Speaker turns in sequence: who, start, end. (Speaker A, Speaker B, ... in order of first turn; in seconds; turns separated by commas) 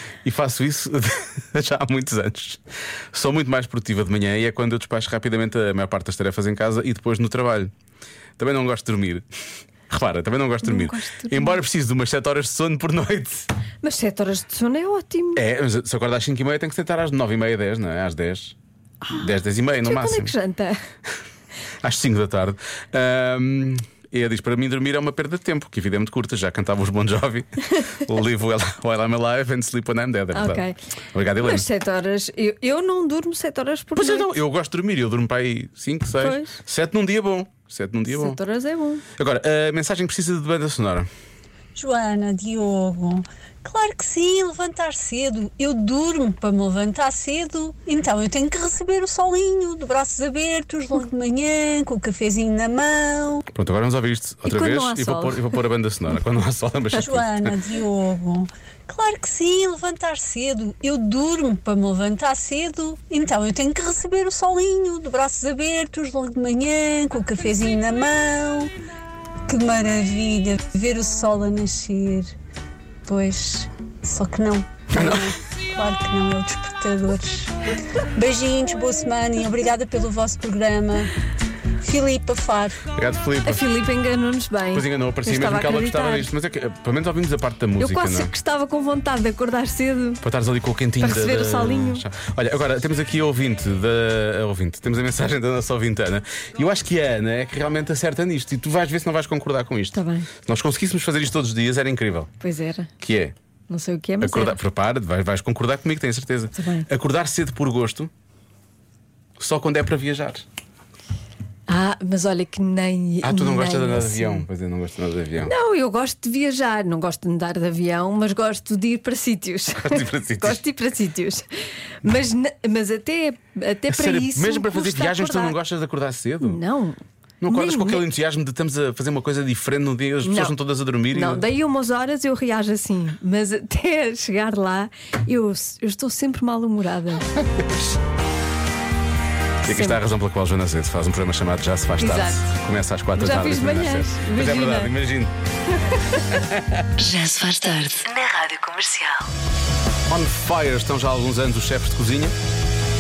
Speaker A: 0.2-2.6, Speaker A: 3.1-7.7, Speaker A: 8.4-9.2, Speaker A: 9.9-13.5, Speaker B: 10.6-11.6, Speaker B: 13.8-15.4, Speaker A: 15.3-18.6, Speaker A: 19.2-20.3, Speaker B: 19.8-20.8, Speaker A: 21.8-31.7, Speaker B: 30.3-30.8, Speaker B: 31.4-34.3, Speaker A: 34.0-38.4, Speaker B: 36.2-36.6, Speaker B: 38.1-39.0, Speaker A: 39.2-41.1, Speaker C: 41.8-53.4, Speaker A: 53.5-57.5, Speaker B: 54.5-55.4, Speaker C: 57.0-68.7, Speaker C: 69.5-72.3, Speaker C: 73.1-77.5, Speaker A: 74.9-75.3, Speaker C: 78.2-81.1, Speaker C: 81.8-82.8, Speaker A: 82.9-83.7, Speaker B: 83.5-86.3, Speaker A: 84.7-88.3, Speaker B: 87.8-90.2, Speaker A: 90.2-102.3, Speaker B: 91.0-92.0, Speaker B: 99.9-100.3, Speaker B: 102.4-102.9, Speaker A: 103.0-103.3, Speaker B: 103.7-104.6, Speaker A: 104.2-108.1, Speaker B: 106.6-106.9, Speaker A: 109.4-110.4, Speaker B: 111.7-114.4, Speaker A: 113.2-115.5, Speaker B: 115.5-121.4, Speaker A: 119.8-120.6, Speaker B: 122.0-125.6, Speaker A: 123.9-126.6, Speaker B: 126.4-128.0, Speaker A: 127.4-131.4, Speaker B: 130.2-130.6, Speaker B: 131.1-137.3, Speaker B: 139.7-140.0, Speaker A: 139.7-145.3, Speaker B: 142.0-142.5, Speaker B: 143.2-144.9, Speaker A: 146.3-146.6, Speaker D: 147.0-149.3, Speaker A: 150.1-152.3